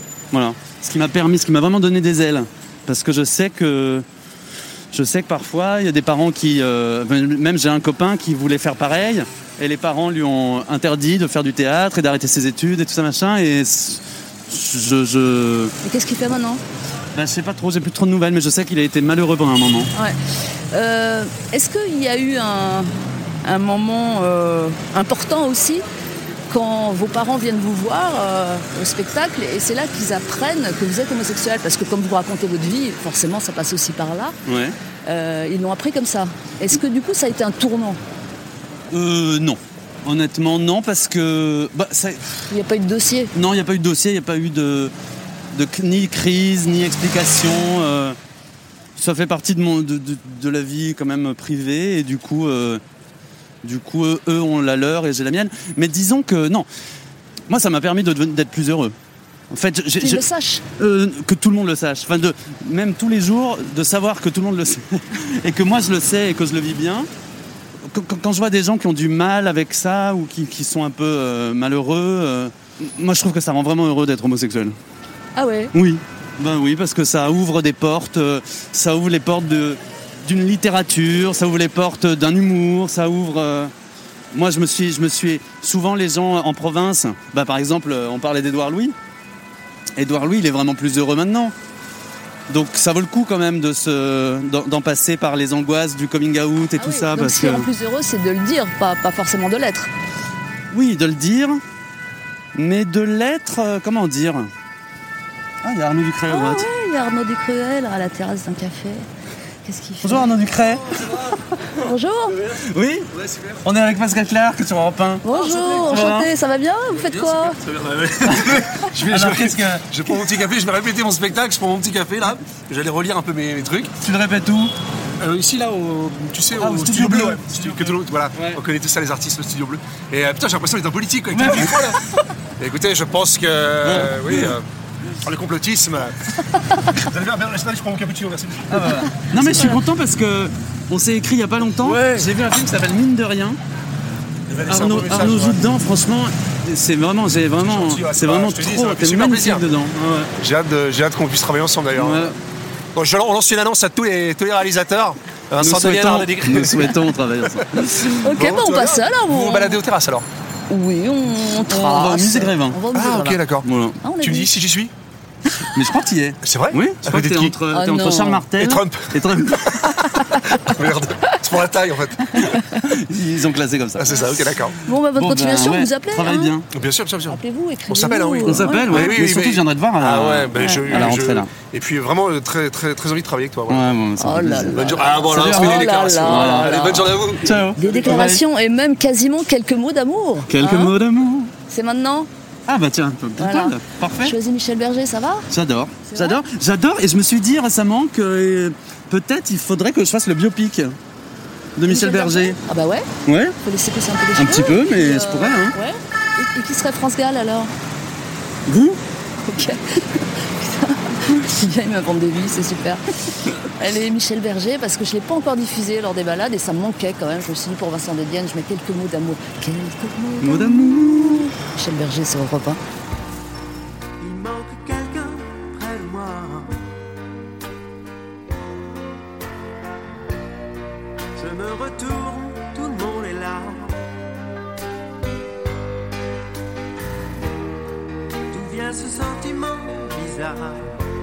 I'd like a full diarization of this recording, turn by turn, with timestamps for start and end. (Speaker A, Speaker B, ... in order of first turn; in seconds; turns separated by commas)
Speaker A: 0.3-4.0, Speaker A: 4.9-15.7, Speaker B: 15.8-16.6, Speaker A: 17.1-19.9, Speaker B: 20.7-22.9, Speaker B: 23.4-25.8, Speaker B: 26.5-34.4, Speaker A: 34.5-34.8, Speaker B: 35.0-38.0, Speaker A: 38.9-42.5, Speaker B: 42.5-43.3, Speaker A: 43.3-44.9, Speaker A: 45.5-48.2, Speaker A: 49.0-52.8, Speaker A: 53.6-56.7, Speaker A: 57.5-59.0, Speaker A: 59.5-60.2, Speaker B: 60.0-60.6, Speaker A: 60.8-67.1, Speaker A: 67.8-74.8, Speaker B: 75.4-75.7, Speaker A: 75.7-83.7, Speaker A: 84.3-89.0, Speaker A: 90.0-91.5, Speaker A: 92.5-97.7, Speaker B: 96.8-99.9, Speaker A: 100.7-101.6, Speaker A: 102.5-104.5, Speaker A: 105.6-106.7, Speaker B: 106.3-109.0, Speaker B: 109.6-110.3, Speaker A: 110.0-111.4, Speaker B: 111.7-112.4, Speaker A: 112.4-116.3, Speaker C: 113.2-113.5, Speaker B: 115.2-117.6, Speaker C: 117.0-123.9, Speaker A: 118.3-120.2, Speaker A: 124.0-124.7, Speaker C: 125.2-134.6, Speaker A: 126.5-128.6, Speaker A: 131.3-132.0, Speaker A: 133.8-134.6, Speaker C: 135.2-136.2, Speaker C: 136.7-139.1, Speaker A: 138.7-143.6, Speaker C: 141.8-142.3, Speaker C: 144.5-145.6, Speaker A: 144.7-150.3, Speaker C: 147.6-149.6, Speaker C: 150.4-152.4, Speaker A: 151.9-152.3, Speaker C: 152.9-160.2, Speaker A: 155.6-158.3, Speaker B: 158.1-159.8, Speaker B: 160.7-163.4, Speaker A: 161.6-162.8, Speaker C: 162.9-163.7, Speaker A: 163.6-164.0, Speaker B: 164.0-164.5, Speaker C: 164.2-164.9, Speaker A: 165.7-170.0, Speaker C: 166.4-167.6, Speaker B: 167.7-168.5, Speaker C: 168.6-172.6, Speaker A: 172.7-174.6, Speaker C: 174.0-174.8, Speaker B: 174.8-176.6, Speaker A: 175.1-176.7, Speaker C: 176.7-183.9, Speaker B: 177.3-179.1, Speaker A: 178.4-181.5, Speaker B: 180.6-180.9, Speaker A: 183.7-186.9, Speaker B: 184.2-187.2, Speaker C: 184.7-188.0, Speaker A: 187.4-188.4, Speaker B: 187.8-190.9, Speaker A: 190.5-191.5, Speaker B: 191.7-192.3, Speaker A: 192.7-194.4, Speaker B: 193.4-195.5, Speaker A: 195.5-201.0, Speaker B: 196.1-196.4, Speaker A: 201.8-202.6, Speaker B: 201.9-203.1, Speaker A: 203.3-203.6, Speaker B: 203.6-207.7, Speaker A: 204.4-205.8, Speaker A: 208.7-209.0, Speaker B: 209.4-222.8, Speaker A: 220.4-221.5, Speaker D: 224.2-226.8, Speaker D: 231.3-234.0, Speaker D: 238.5-241.0